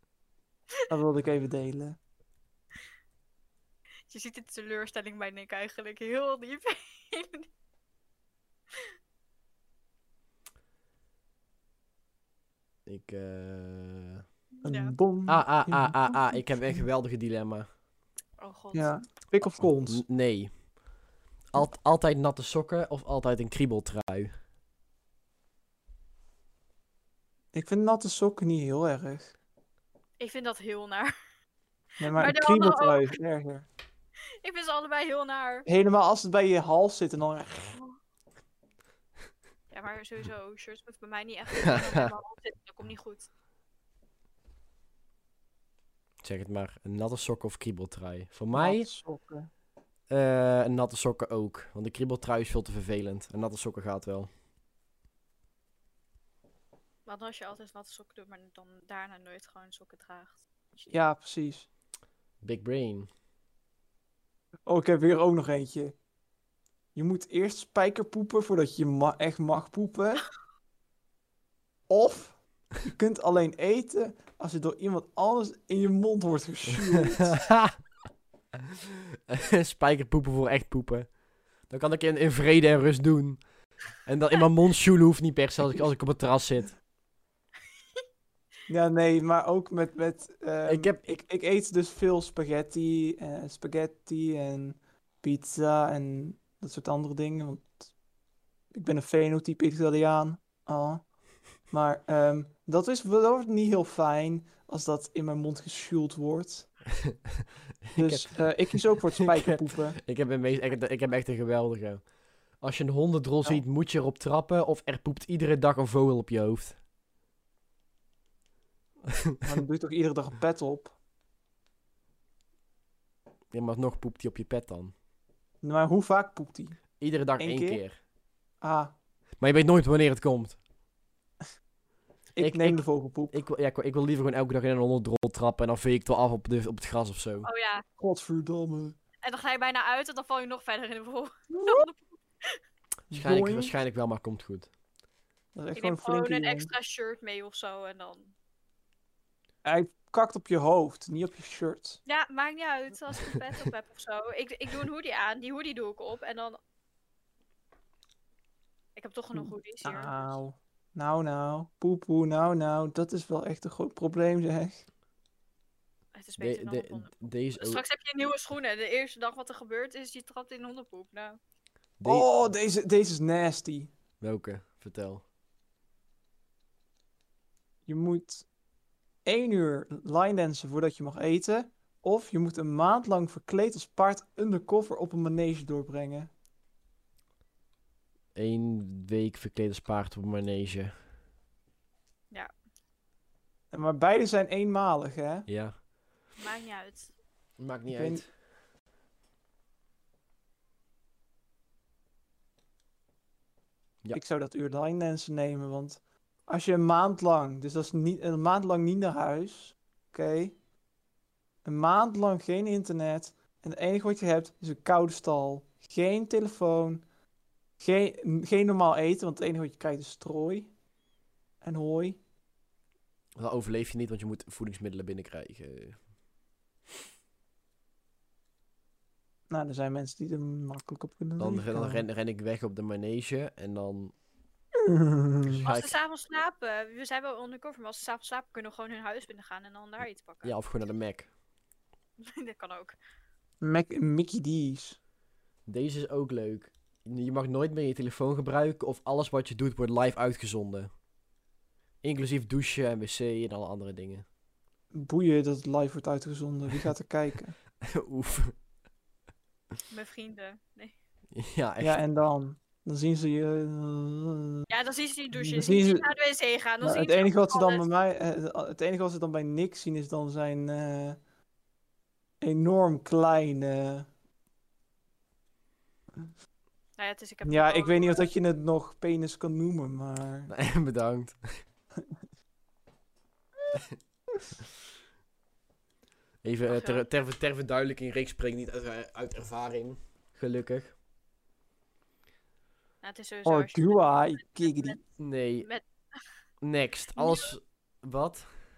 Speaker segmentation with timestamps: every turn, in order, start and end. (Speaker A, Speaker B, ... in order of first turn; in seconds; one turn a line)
Speaker A: 0.9-2.0
Speaker B: 4.1-7.5
Speaker C: 12.9-14.2
Speaker B: 14.6-15.0
Speaker A: 14.6-16.8
Speaker C: 15.3-17.7
Speaker B: 18.4-19.0
Speaker A: 18.7-20.0
Speaker C: 19.9-20.5
Speaker C: 21.5-24.3
Speaker A: 27.5-29.3
Speaker B: 30.2-31.1
Speaker A: 32.0-33.7
Speaker B: 32.1-33.2
Speaker B: 34.4-35.7
Speaker A: 35.7-37.7
Speaker B: 37.7-38.0
Speaker B: 39.7-43.3
Speaker C: 41.6-42.1
Speaker C: 46.2-48.9
Speaker A: 48.5-49.5
Speaker C: 50.1-54.3
Speaker B: 57.1-60.9
Speaker A: 60.9-61.7
Speaker C: 62.4-63.1
Speaker A: 64.7-66.0
Speaker A: 67.0-70.3
Speaker A: 71.9-77.5
Speaker C: 77.2-77.8
Speaker C: 79.3-81.1
Speaker C: 81.7-83.4
Speaker C: 84.0-86.8
Speaker A: 88.7-97.9
Speaker C: 90.7-91.2
Speaker A: 98.7-101.0
Speaker A: 101.7-106.7
Speaker C: 107.8-112.1
Speaker A: 108.0-110.0
Speaker C: 112.6-116.8
Speaker A: 119.4-120.9
Speaker C: 123.5-124.9
Speaker A: 125.6-126.8
Speaker C: 127.0-128.0
Speaker A: 127.4-127.8
Speaker A: 128.6-128.9
Speaker C: 129.4-130.6
Speaker A: 132.3-133.4
Speaker C: 132.4-137.5
Speaker B: 137.4-137.8
Speaker A: 138.0-139.0
Speaker B: 139.2-142.6
Speaker A: 141.5-141.9
Speaker A: 143.1-143.7
Speaker C: 143.1-144.7
Speaker A: 145.6-146.7
Speaker B: 145.8-148.3
Speaker A: 149.7-152.0
Speaker B: 152.1-156.6
Speaker B: 159.0-160.4
Speaker A: 159.3-164.8
Speaker B: 166.1-171.4
Speaker C: 166.4-167.8
Speaker C: 172.0-172.3
Speaker A: 172.1-173.9
Speaker C: 174.2-175.2
Speaker A: 177.9-178.5
Speaker A: 179.2-186.3
Speaker C: 188.3-190.9
Speaker A: 193.7-195.5
Speaker C: 195.5-195.8
Speaker B: 196.4-197.1
Speaker C: 197.6-198.3
Speaker A: 197.9-198.3
Speaker A: 204.1-210.6
Speaker A: 211.7-217.0
Speaker A: 217.8-220.7
Speaker A: 221.6-222.2
Speaker C: 223.4-226.0
Speaker A: 229.5-232.1
Speaker C: 231.4-234.1
Speaker A: 234.8-235.7
Speaker C: 235.4-235.9
Speaker B: 235.7-240.6
Speaker C: 240.4-241.3
Speaker B: 242.2-242.9
Speaker A: 243.6-245.0
Speaker C: 245.7-250.9
Speaker C: 252.0-254.2
Speaker A: 254.9-257.6
Speaker C: 257.8-258.6
Speaker B: 259.9-260.9
Speaker C: 261.3-262.0
Speaker A: 261.8-264.7
Speaker B: 264.7-267.8
Speaker A: 265.3-266.1
Speaker A: 266.8-271.2
Speaker A: 272.4-274.1
Speaker B: 277.0-278.3
Speaker A: 277.4-280.5
Speaker C: 280.5-281.6
Speaker C: 286.4-290.9
Speaker B: 286.7-287.1
Speaker B: 293.0-295.0
Speaker A: 293.4-295.0
Speaker C: 295.2-295.7
Speaker B: 295.6-296.2
Speaker C: 296.6-298.4
Speaker B: 297.1-297.6